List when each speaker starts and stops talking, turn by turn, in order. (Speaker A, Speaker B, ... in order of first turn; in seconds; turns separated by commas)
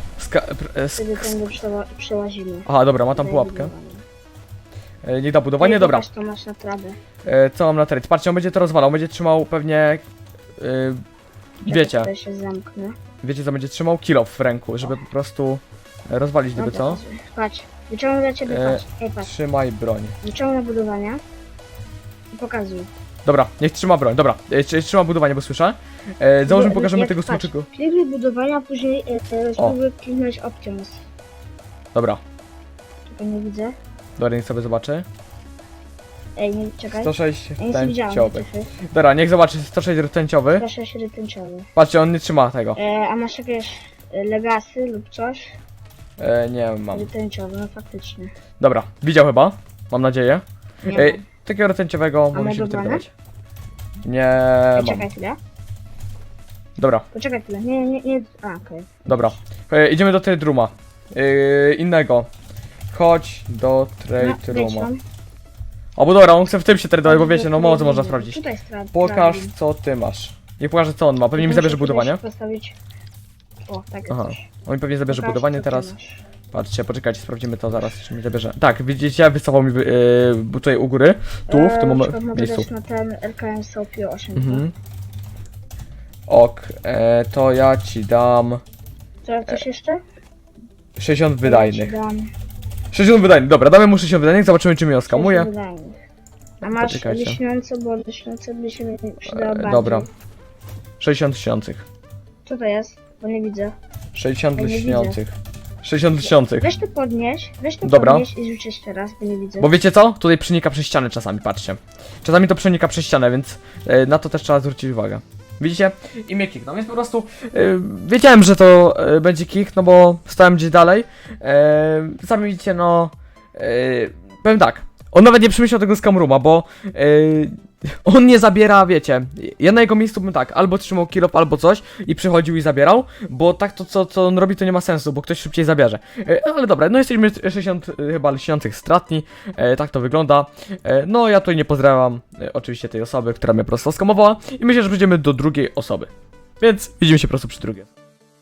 Speaker A: 0.2-1.4, Speaker B: 1.0-4.0, Speaker A: 2.6-3.7, Speaker A: 5.0-6.1, Speaker B: 5.6-7.0, Speaker A: 7.2-10.0, Speaker A: 10.6-11.0, Speaker A: 11.6-12.1, Speaker B: 11.7-13.0, Speaker A: 13.2-17.0, Speaker B: 16.6-19.3, Speaker A: 18.5-20.1, Speaker B: 20.2-21.2, Speaker B: 22.3-22.9, Speaker A: 23.2-27.7, Speaker B: 26.5-31.0, Speaker A: 31.9-32.2, Speaker B: 33.1-33.8, Speaker A: 34.2-35.0, Speaker B: 36.4-38.7, Speaker A: 36.9-40.6, Speaker B: 40.6-41.7, Speaker A: 41.7-42.8, Speaker B: 42.8-45.6, Speaker A: 46.2-47.1, Speaker B: 46.9-48.3, Speaker A: 48.6-53.1, Speaker B: 50.9-51.2, Speaker B: 52.3-53.0, Speaker A: 54.0-55.1, Speaker B: 54.8-55.4, Speaker A: 56.8-57.0, Speaker B: 57.1-59.2, Speaker A: 59.0-62.3, Speaker A: 62.9-64.9, Speaker B: 64.2-65.0, Speaker A: 66.0-72.2, Speaker B: 67.0-69.5, Speaker B: 71.3-72.8, Speaker B: 73.6-74.4, Speaker A: 74.1-75.9, Speaker B: 75.1-76.2, Speaker A: 76.5-82.7, Speaker B: 81.5-84.6, Speaker A: 84.3-84.7, Speaker A: 86.3-88.6, Speaker B: 89.2-90.0, Speaker A: 91.0-91.9, Speaker B: 91.4-92.3, Speaker A: 92.9-95.5, Speaker B: 95.1-96.0, Speaker B: 96.6-100.1, Speaker A: 96.7-97.4, Speaker A: 99.3-100.1, Speaker A: 101.0-101.8, Speaker B: 102.5-103.7, Speaker A: 104.1-106.7, Speaker B: 104.5-105.2, Speaker B: 106.5-109.7, Speaker A: 107.8-108.3, Speaker A: 109.6-147.9